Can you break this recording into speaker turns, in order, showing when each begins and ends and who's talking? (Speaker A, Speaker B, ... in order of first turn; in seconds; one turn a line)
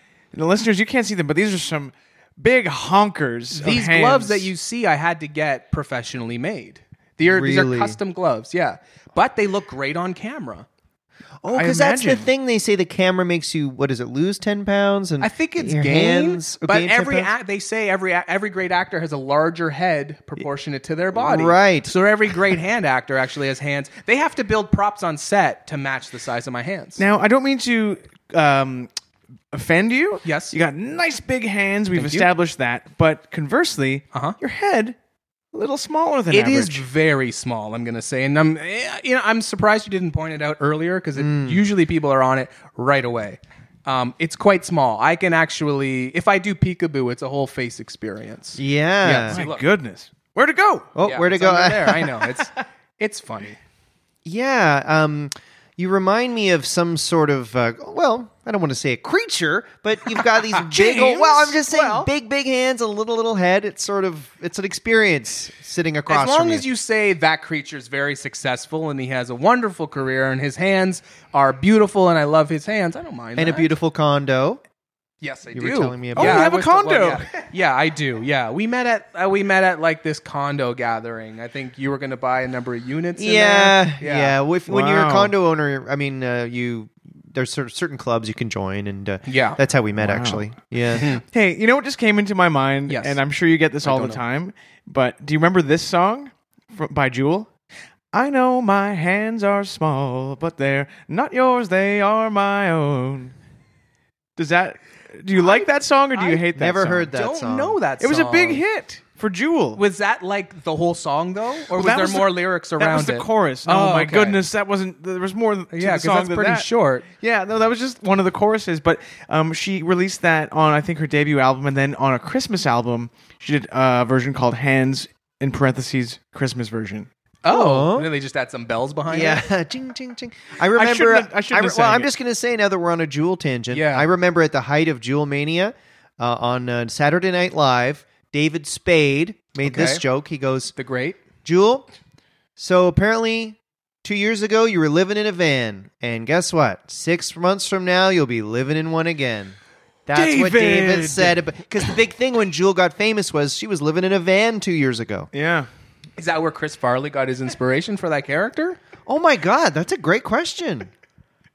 Speaker A: 0.3-4.5
Speaker B: 3.5-10.7
Speaker C: 7.2-8.0
Speaker C: 11.4-17.3
Speaker A: 11.5-12.3
Speaker B: 15.2-27.0
Speaker C: 21.1-21.9
Speaker A: 27.0-28.9
Speaker A: 29.5-35.0
Speaker B: 30.2-30.6
Speaker B: 31.9-32.3
Speaker B: 34.1-34.4
Speaker A: 35.5-36.9
Speaker B: 36.3-49.6
Speaker C: 41.2-41.6
Speaker C: 48.6-49.4
Speaker A: 49.3-50.9
Speaker C: 51.0-52.3
Speaker B: 51.0-53.6
Speaker C: 54.2-66.7
Speaker B: 60.6-62.1
Speaker B: 66.1-73.7
Speaker C: 73.4-74.6
Speaker B: 75.2-84.4
Speaker C: 75.5-76.5
Speaker A: 76.2-77.5
Speaker C: 83.2-91.1
Speaker A: 84.7-85.3
Speaker B: 89.3-89.6
Speaker A: 90.0-90.4
Speaker B: 90.9-91.2
Speaker A: 91.3-97.5
Speaker B: 92.9-93.2
Speaker B: 93.8-94.2
Speaker A: 98.1-103.3
Speaker A: 104.4-107.1
Speaker B: 106.2-106.5
Speaker C: 106.5-107.8
Speaker B: 107.1-108.6
Speaker A: 108.0-109.8
Speaker B: 109.8-114.4
Speaker A: 111.7-116.7
Speaker B: 115.7-117.1
Speaker A: 117.2-127.1
Speaker B: 127.4-129.5
Speaker C: 127.5-128.1
Speaker C: 129.1-140.7
Speaker A: 130.8-132.1
Speaker B: 133.7-134.1
Speaker B: 139.6-140.0
Speaker B: 140.8-141.2
Speaker C: 141.4-141.9
Speaker C: 142.6-149.6
Speaker C: 150.1-155.3
Speaker A: 150.1-151.9
Speaker A: 155.3-155.7
Speaker B: 156.2-158.8
Speaker C: 159.1-160.9